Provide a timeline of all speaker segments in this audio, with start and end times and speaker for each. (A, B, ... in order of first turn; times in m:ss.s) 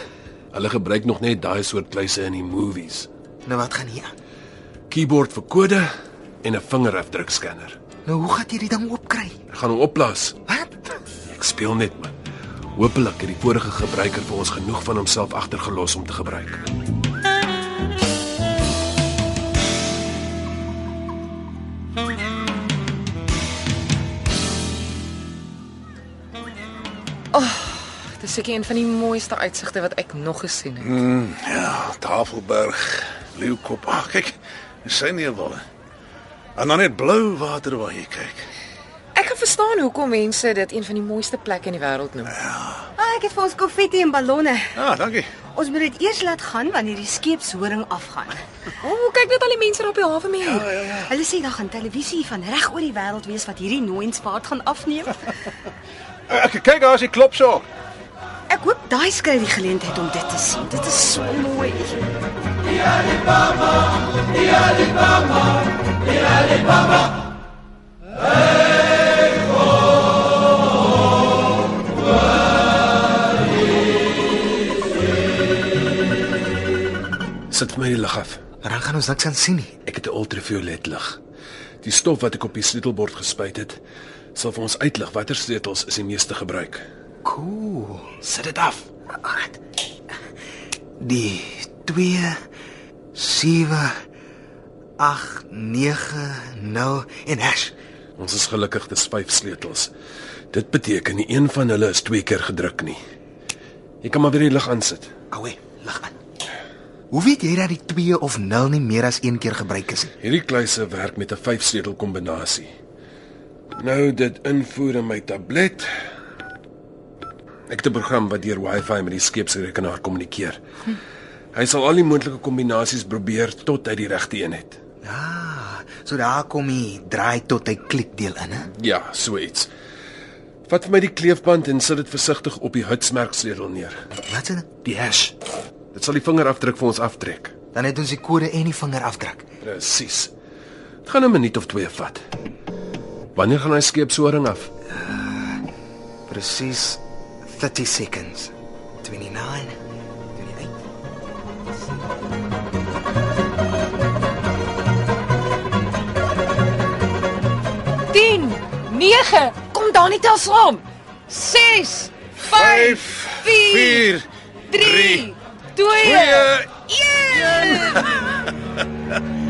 0:00.5-0:03.1 A
0:03.4-0:04.1 B
0:04.9-0:05.9 A
0:06.4-0:07.8 A
0:08.0-0:09.4 B
0:09.5-0:10.4 A
0:10.5-0:10.8 B
0:11.3-0:12.1 A
0:12.8-0:16.7 A
0:27.3-0:30.9 C
0:30.8-0:35.6 D
0:36.6-0:38.5 D
0:39.1-0:42.4 C
0:42.4-0:42.9 D
0:43.0-0:44.8 E
0:44.8-0:45.4 D
0:45.4-0:48.4 E
0:48.8-0:50.7 C
0:50.4-0:51.1 D
0:51.0-0:55.1 E
0:56.3-0:57.7 D
0:58.5-1:02.0 E
1:17.5-1:18.4 A
1:18.6-1:19.7 B
1:19.8-1:21.2 A
1:21.8-1:23.8 A
1:24.3-1:26.8 A
1:27.2-1:28.1 B
1:28.2-1:28.8 A
1:29.1-1:29.6 B
1:31.0-1:32.4 B
1:33.1-1:33.9 B
1:35.0-1:37.7 B
1:38.2-1:39.9 A
1:40.5-1:43.0 A
1:44.0-1:45.1 A
1:45.3-1:46.1 B
1:47.1-1:50.1 B
1:50.2-1:52.7 A
1:53.8-1:55.9 A
1:57.7-2:00.6 A
2:01.5-2:04.8 A
2:05.0-2:08.7 B
2:08.7-2:09.7 A
2:10.7-2:14.0 A
2:14.3-2:14.7 B
2:14.8-2:15.3 A
2:15.9-2:17.5 A
2:17.7-2:19.4 B
2:19.6-2:20.3 A
2:21.0-2:22.2 A
2:23.3-2:24.7 A
2:25.0-2:25.6 B
2:26.3-2:28.5 B
2:29.0-2:29.7 B
2:30.4-2:30.7 B
2:38.1-2:44.0 C
2:42.5-2:45.2 D
2:44.7-2:48.1 C
2:46.0-2:48.1 D